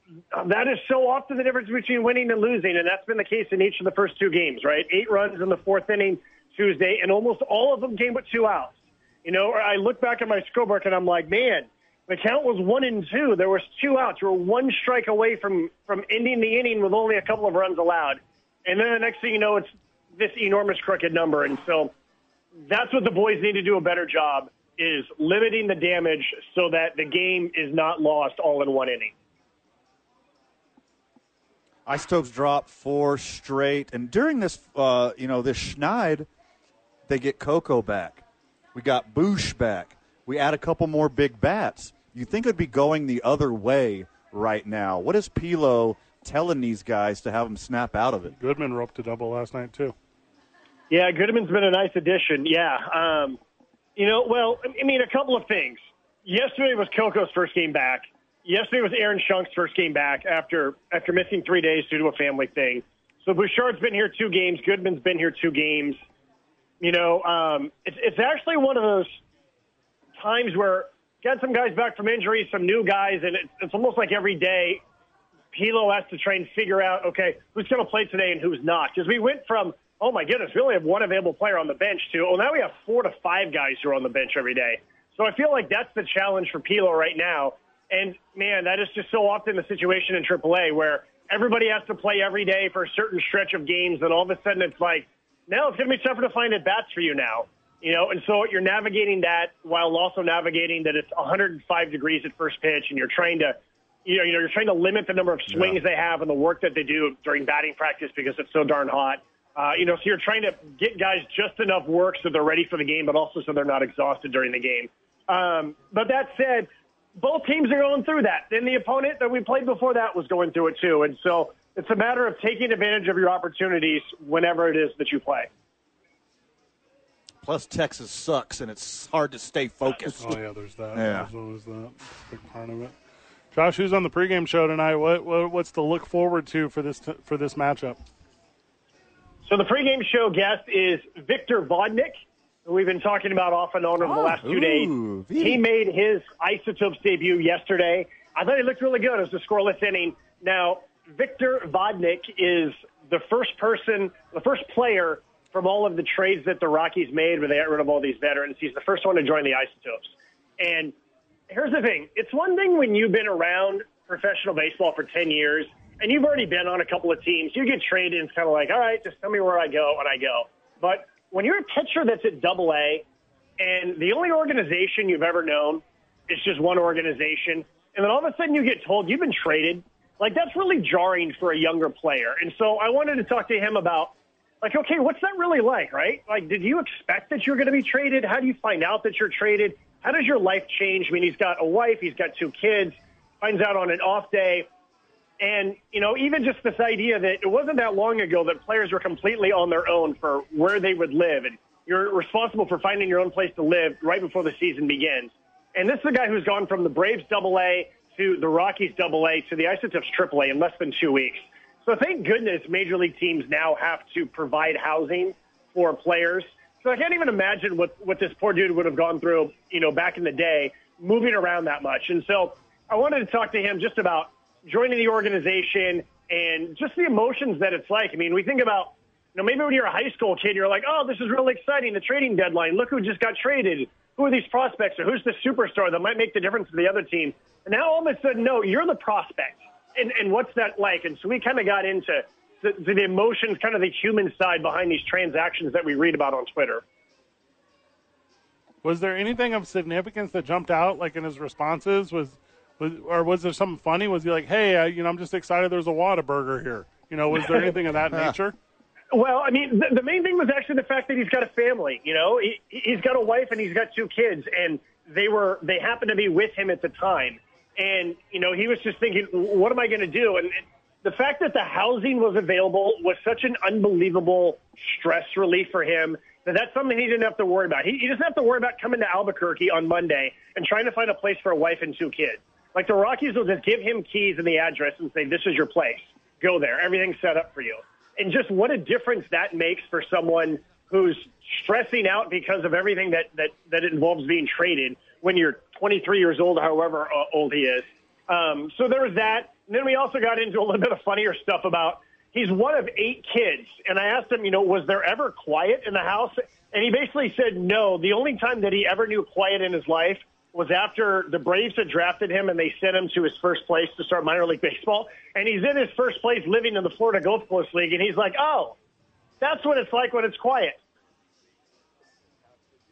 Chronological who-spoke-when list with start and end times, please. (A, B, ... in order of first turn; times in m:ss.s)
0:00.3-0:21.9 A
0:22.7-0:29.1 A
0:31.9-0:36.3 B
0:37.1-0:48.4 B
0:48.4-0:50.0 C
0:50.9-0:53.4 A
0:54.0-1:06.0 A
1:06.8-1:09.1 A
1:10.2-1:14.8 A
1:15.5-2:05.5 A
1:45.5-1:45.8 B
2:07.4-2:10.4 B
2:10.2-2:12.9 C
2:10.9-2:11.3 B
2:13.5-2:18.0 C
2:19.5-2:41.0 A
2:24.0-2:25.6 B
2:41.5-2:53.0 A
2:53.6-3:14.7 A
3:15.4-4:06.8 A
4:08.8-4:18.6 C
4:19.1-5:18.8 A
5:19.4-5:20.8 A